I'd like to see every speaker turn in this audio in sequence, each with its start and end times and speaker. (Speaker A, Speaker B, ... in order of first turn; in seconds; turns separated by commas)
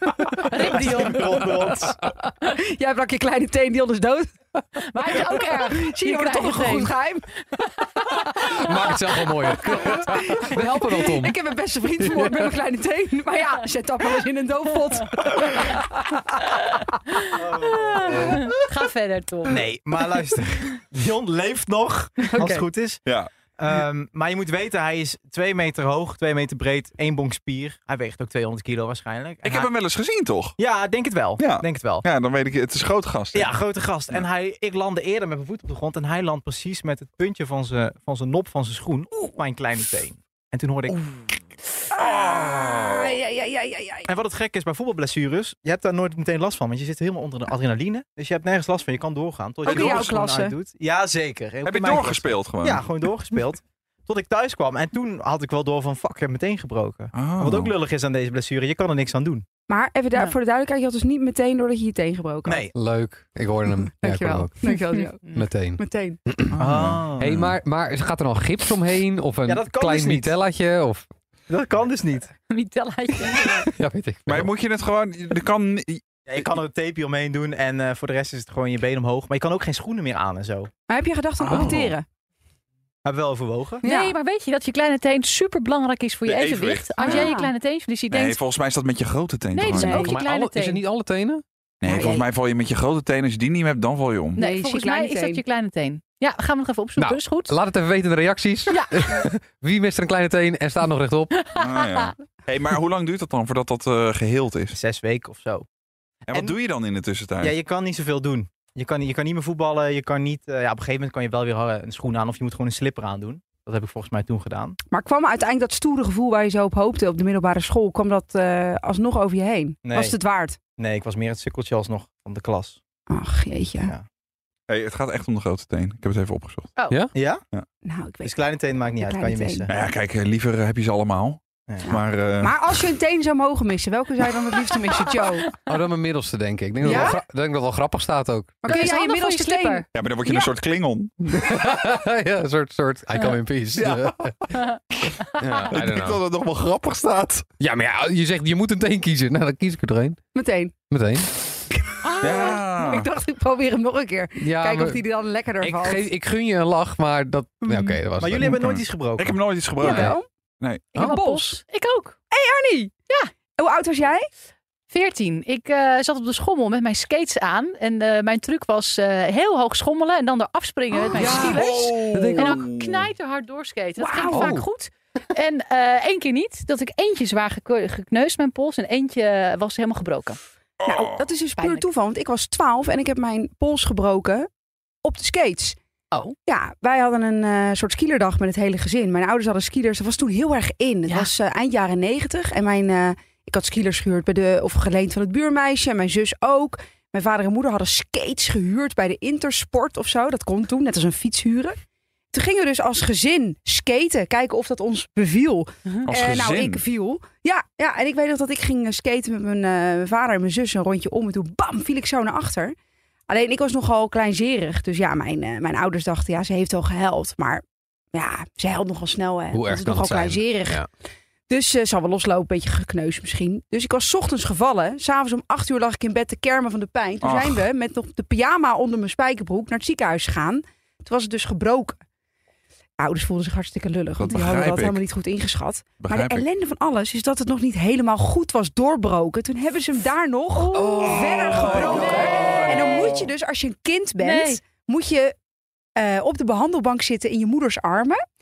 Speaker A: 0.5-1.8, Speaker B: 0.6-2.0, Speaker C: 2.3-4.3, Speaker A: 4.8-6.9, Speaker C: 5.1-7.3, Speaker C: 8.2-8.7, Speaker D: 8.5-11.4, Speaker C: 9.4-17.0, Speaker D: 12.0-12.5, Speaker A: 17.1-19.7, Speaker B: 17.3-18.6, Speaker B: 19.5-23.0, Speaker C: 22.3-22.6, Speaker B: 23.5-29.7, Speaker E: 29.4-30.6, Speaker B: 30.6-32.1, Speaker E: 31.4-33.5, Speaker B: 33.3-41.0, Speaker C: 41.9-44.1, Speaker E: 42.0-43.1, Speaker B: 44.1-59.5, Speaker E: 49.6-50.1, Speaker C: 49.6-50.6, Speaker E: 51.6-52.9, Speaker E: 57.1-57.7, Speaker C: 59.7-62.7, Speaker B: 62.5-62.7, Speaker D: 62.8-64.5, Speaker C: 63.9-66.2, Speaker A: 64.7-65.5, Speaker D: 65.3-66.6, Speaker E: 66.5-67.6, Speaker B: 66.6-67.3, Speaker D: 67.2-71.1, Speaker B: 69.5-70.3, Speaker B: 71.5-72.3, Speaker A: 72.5-73.7, Speaker D: 73.8-74.5, Speaker E: 74.3-76.6, Speaker B: 76.3-80.7, Speaker C: 80.9-82.0, Speaker E: 81.5-82.0, Speaker B: 83.0-83.8, Speaker C: 83.8-84.2, Speaker A: 83.8-88.4, Speaker E: 86.3-87.3, Speaker C: 87.0-87.5, Speaker E: 88.1-90.0, Speaker A: 89.5-90.8, Speaker C: 89.8-90.2, Speaker D: 89.8-91.4, Speaker E: 91.8-94.4, Speaker C: 91.9-92.2, Speaker A: 94.4-97.5, Speaker C: 94.4-95.4, Speaker D: 97.0-101.3, Speaker A: 98.7-99.1, Speaker A: 101.4-102.1, Speaker E: 101.5-104.8, Speaker B: 104.7-105.7, Speaker E: 106.3-107.6, Speaker B: 106.3-106.5, Speaker B: 107.4-114.8, Speaker C: 114.9-120.6, Speaker B: 119.8-120.2, Speaker B: 120.8-122.8, Speaker C: 123.1-123.9, Speaker E: 124.7-126.7, Speaker B: 127.1-127.4, Speaker C: 127.8-129.7, Speaker B: 128.2-129.8, Speaker E: 129.7-132.6, Speaker C: 131.8-135.5, Speaker D: 135.7-138.8, Speaker C: 136.8-137.2, Speaker C: 138.6-140.5, Speaker A: 138.7-139.9, Speaker E: 139.9-141.5, Speaker D: 141.3-144.3, Speaker E: 143.8-147.5, Speaker D: 145.4-146.2, Speaker D: 147.6-150.2, Speaker C: 150.3-150.7, Speaker D: 150.9-151.3, Speaker C: 152.0-156.1, Speaker E: 152.2-153.1, Speaker D: 154.4-155.0, Speaker D: 155.6-158.6, Speaker C: 157.6-158.0, Speaker B: 158.2-159.4, Speaker E: 158.4-160.9, Speaker C: 159.8-160.3, Speaker D: 159.8-160.2, Speaker A: 160.9-162.2, Speaker C: 161.0-161.6, Speaker C: 162.3-162.9, Speaker C: 163.6-164.3, Speaker A: 164.9-180.4, Speaker C: 171.0-172.5, Speaker D: 171.2-171.5, Speaker E: 171.3-173.1, Speaker D: 172.1-172.5, Speaker C: 174.0-174.6, Speaker D: 174.3-174.7, Speaker E: 180.8-181.3, Speaker C: 180.8-184.5, Speaker A: 181.6-181.8, Speaker C: 185.0-185.8, Speaker C: 186.5-201.8, Speaker C: 202.3-212.8, Speaker E: 206.1-206.8, Speaker C: 213.3-220.8, Speaker D: 219.5-220.9, Speaker C: 221.5-232.0, Speaker E: 227.2-227.7, Speaker C: 233.0-245.3, Speaker E: 234.2-235.0, Speaker E: 236.0-236.4, Speaker A: 240.7-241.1, Speaker D: 241.0-241.6, Speaker E: 241.1-243.2, Speaker A: 241.8-242.8, Speaker A: 244.2-244.6, Speaker C: 246.0-248.2